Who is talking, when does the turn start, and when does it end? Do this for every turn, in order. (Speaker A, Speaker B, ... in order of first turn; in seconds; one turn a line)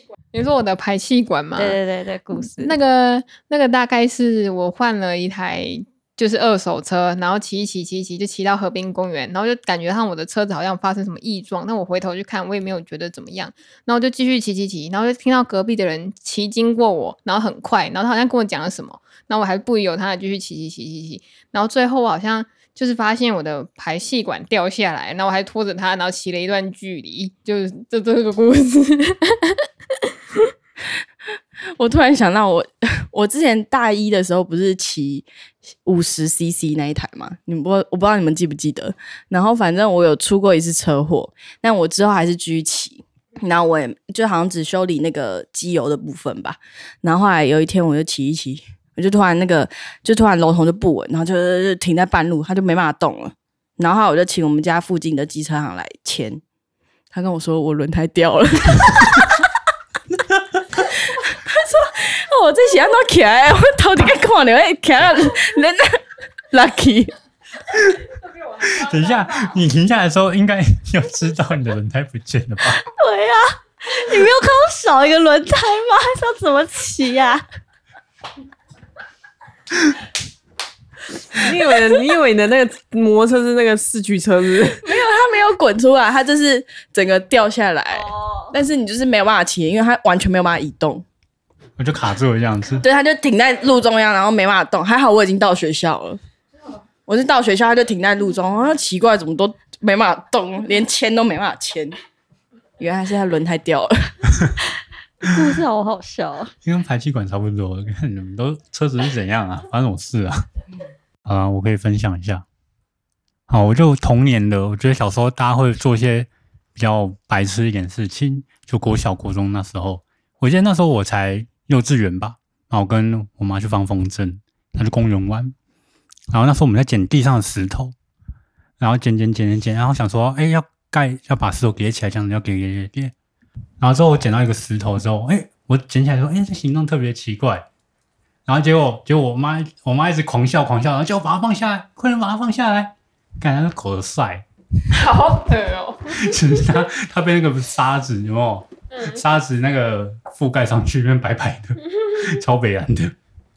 Speaker A: 0.3-1.8
Speaker B: 1.6-2.8
Speaker A: 2.6-29.6
Speaker C: 31.8-35.3
Speaker C: 35.9-56.4
Speaker C: 57.1-59.4
Speaker C: 60.8-67.1
Speaker D: 67.7-68.0
Speaker D: 68.6-72.8
Speaker B: 72.8-77.4
Speaker E: 81.3-84.9
Speaker C: 84.8-91.0
Speaker B: 87.9-88.5
Speaker D: 91.8-92.8
Speaker C: 92.8-96.2
Speaker C: 97.1-101.9
Speaker C: 102.8-104.1
Speaker B: 105.2-106.5
Speaker D: 106.6-110.5
Speaker D: 111.2-112.5
Speaker D: 113.5-125.5
Speaker D: 126.3-128.0
Speaker D: 128.8-133.1
Speaker D: 133.8-137.7
Speaker D: 138.5-144.4
Speaker A: 144.9-146.3
Speaker D: 146.1-153.2